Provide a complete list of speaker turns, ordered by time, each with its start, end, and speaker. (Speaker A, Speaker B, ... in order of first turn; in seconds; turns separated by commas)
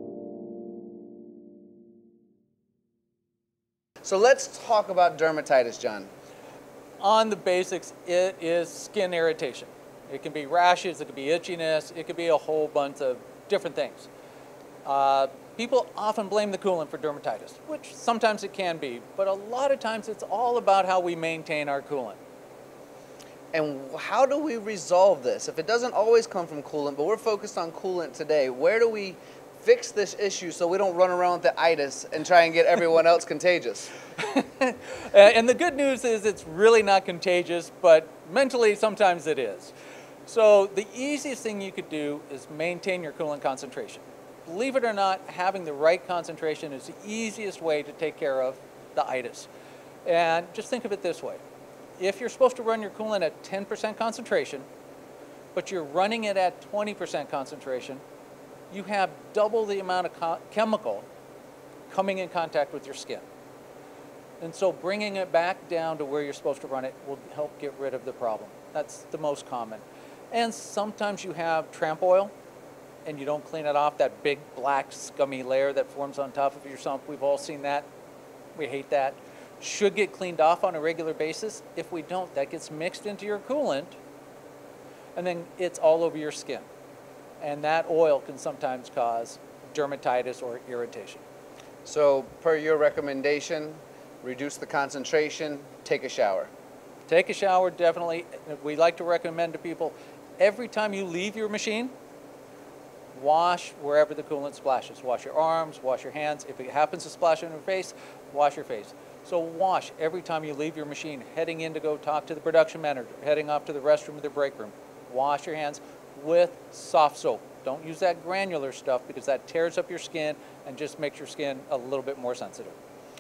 Speaker A: 4.0-6.1, Speaker B: 7.0-14.1, Speaker B: 14.8-22.2, Speaker A: 23.5-33.9, Speaker B: 34.2-39.7, Speaker B: 40.2-49.5, Speaker B: 50.0-51.4, Speaker B: 52.0-54.7, Speaker B: 55.5-58.0, Speaker B: 58.7-61.1, Speaker B: 61.9-63.2, Speaker B: 64.4-72.3, Speaker B: 73.0-77.9, Speaker B: 78.5-84.0, Speaker B: 85.2-86.7, Speaker B: 87.4-91.2, Speaker A: 91.8-96.5, Speaker B: 97.1-101.9, Speaker B: 103.1-122.8